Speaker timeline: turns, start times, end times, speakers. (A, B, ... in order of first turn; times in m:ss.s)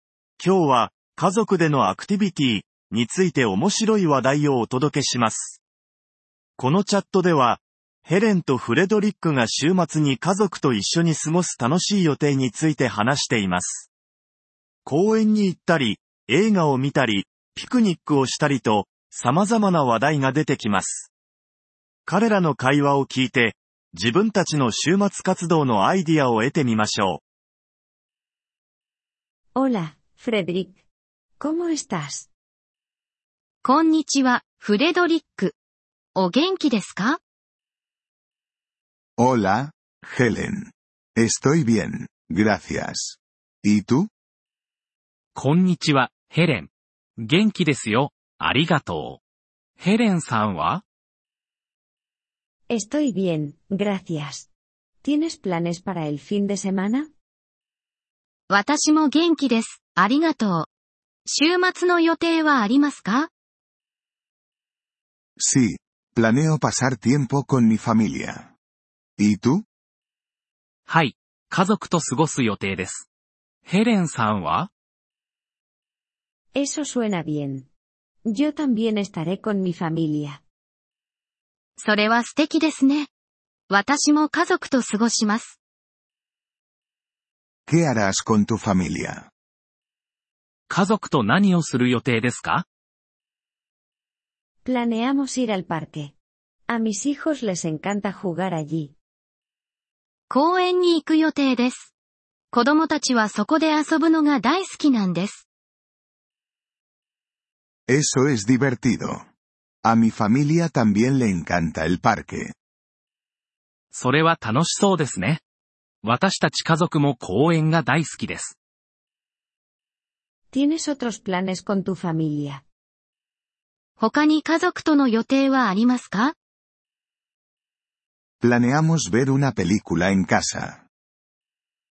0:00.4-0:05.6 A
0:06.6-0:13.9 A
0:14.8-0:21.1 A
0:22.0-0:27.2 A
0:29.6-0:30.8 B
0:31.4-0:32.3 B
0:33.6-0:35.5 C
0:36.1-0:37.2 C
0:39.2-0:44.1 D
0:45.3-0:49.2 E
0:49.8-0:50.8 E
0:52.7-0:54.5 B
0:55.0-0:57.1 B
0:58.5-1:00.7 C
1:01.2-1:03.3 C
1:05.4-1:08.5 D
1:09.2-1:09.6 D
1:10.9-1:13.1 E
1:13.6-1:14.7 E
1:16.5-1:17.7 B
1:18.2-1:20.4 B
1:21.8-1:23.1 C
1:23.7-1:25.6 C
1:27.7-1:29.3 D
1:30.7-1:32.6 E
1:34.6-1:36.1 B
1:36.7-1:38.9 B
1:40.3-1:41.9 C
1:42.5-1:45.4 C
1:47.9-1:49.3 D
1:49.8-1:52.5 D
1:53.9-1:55.4 E
1:56.0-1:58.5 E
2:00.5-2:02.6 B
2:04.0-2:06.3 C
2:08.4-2:10.8 D